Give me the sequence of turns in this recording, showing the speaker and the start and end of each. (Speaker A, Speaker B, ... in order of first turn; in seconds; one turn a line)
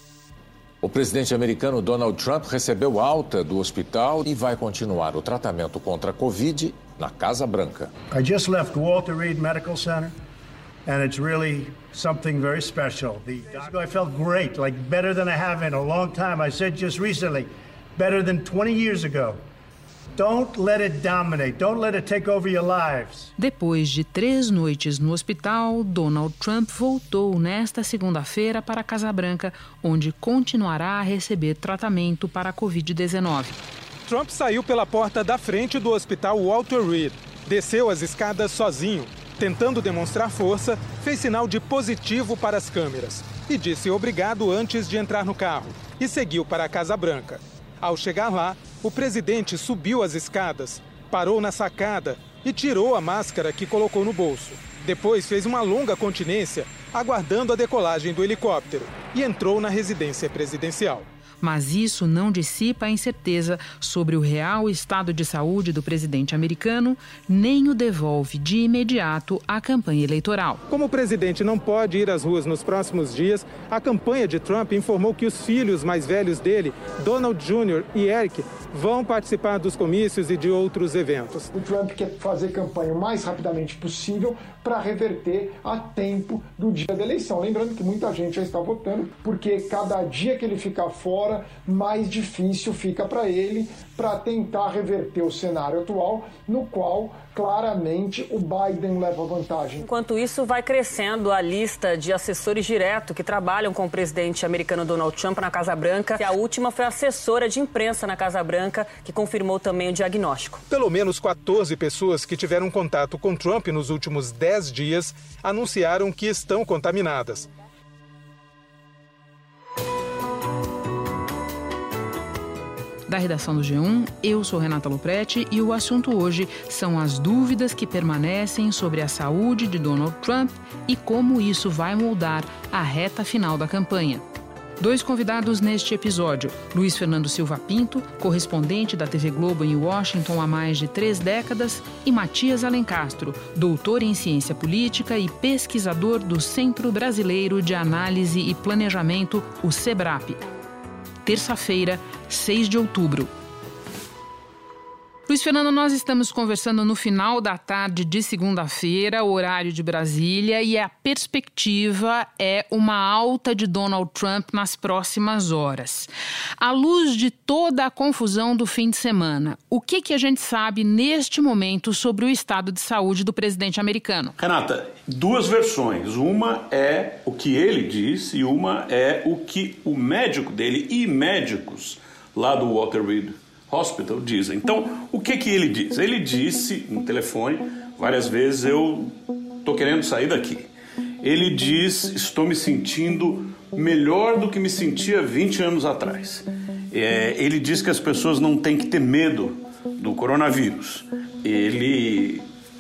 Speaker A: 0.8-7.9
Speaker B: 8.1-10.1
Speaker B: 10.8-19.4
Speaker B: 20.1-23.3
Speaker C: 23.4-33.6
Speaker D: 34.0-61.1
Speaker C: 61.4-70.6
Speaker D: 70.7-81.5
Speaker E: 81.5-99.8
Speaker F: 99.8-110.6
Speaker D: 110.7-117.5
Speaker C: 123.1-134.2
Speaker C: 134.8-150.4
Speaker C: 151.2-153.3
Speaker C: 155.3-174.3
Speaker G: 174.4-190.7
Speaker G: 191.2-202.4